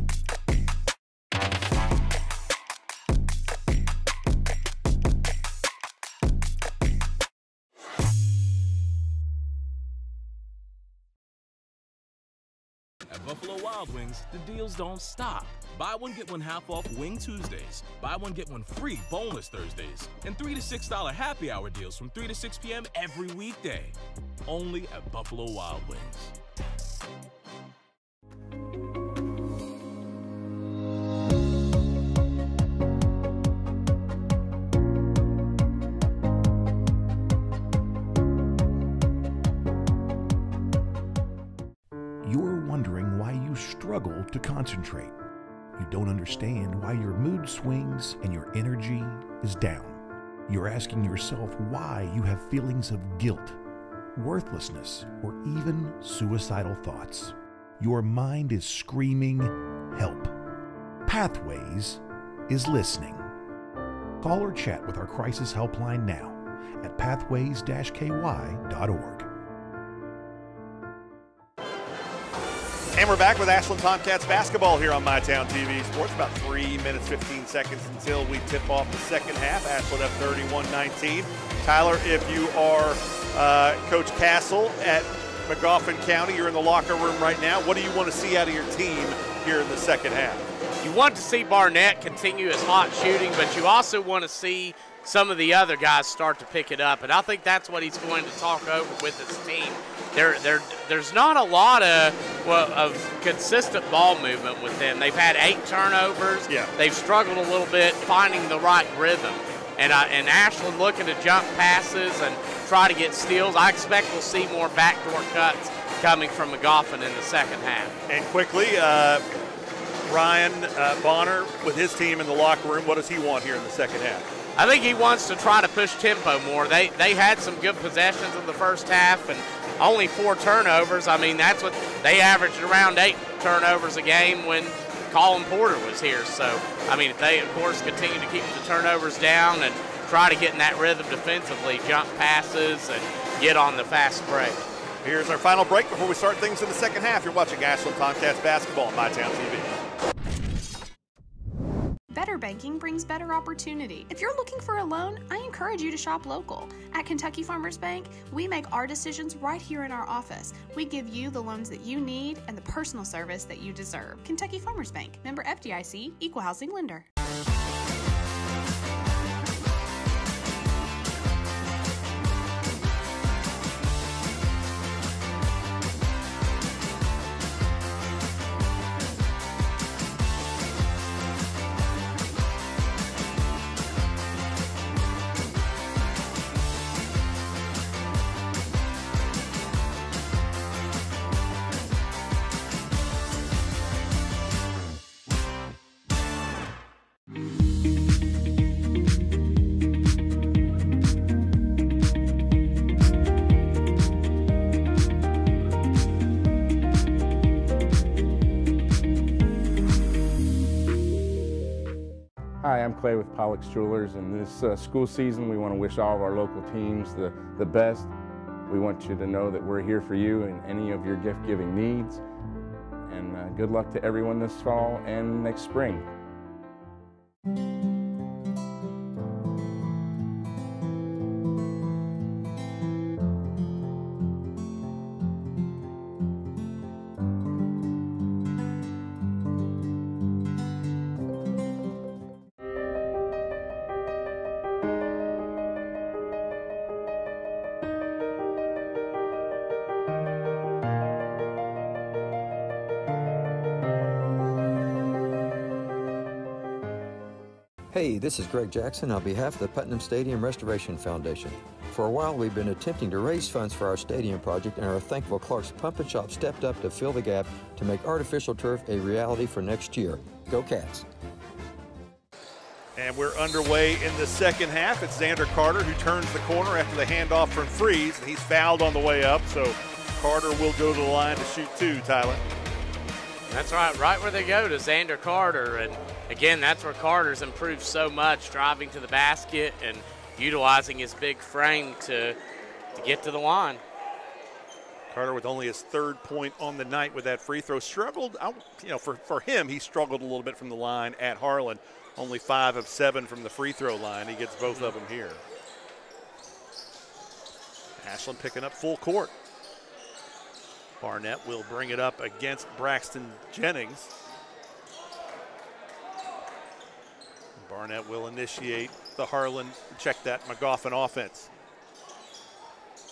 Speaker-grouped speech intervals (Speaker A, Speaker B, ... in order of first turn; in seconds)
Speaker A: 13.1-26.3
Speaker B: 42.2-45.1, 45.8-53.6, 54.1-60.3, 61.0-63.3, 64.2-69.3
Speaker C: 72.9-90.5, 118.1-119.2, 120.1-124.3, 145.0-149.7, 272.9-282.4, 295.1-305.4, 308.0-309.3, 311.0-314.1, 317.6-321.5
Speaker D: 90.8-118.0, 124.6-144.6, 283.5-292.4, 292.9-293.8, 304.7-304.9
Speaker E: 152.1-167.1
Speaker F: 212.6-218.1, 218.7-222.2, 223.1-226.1
Speaker G: 257.9-271.0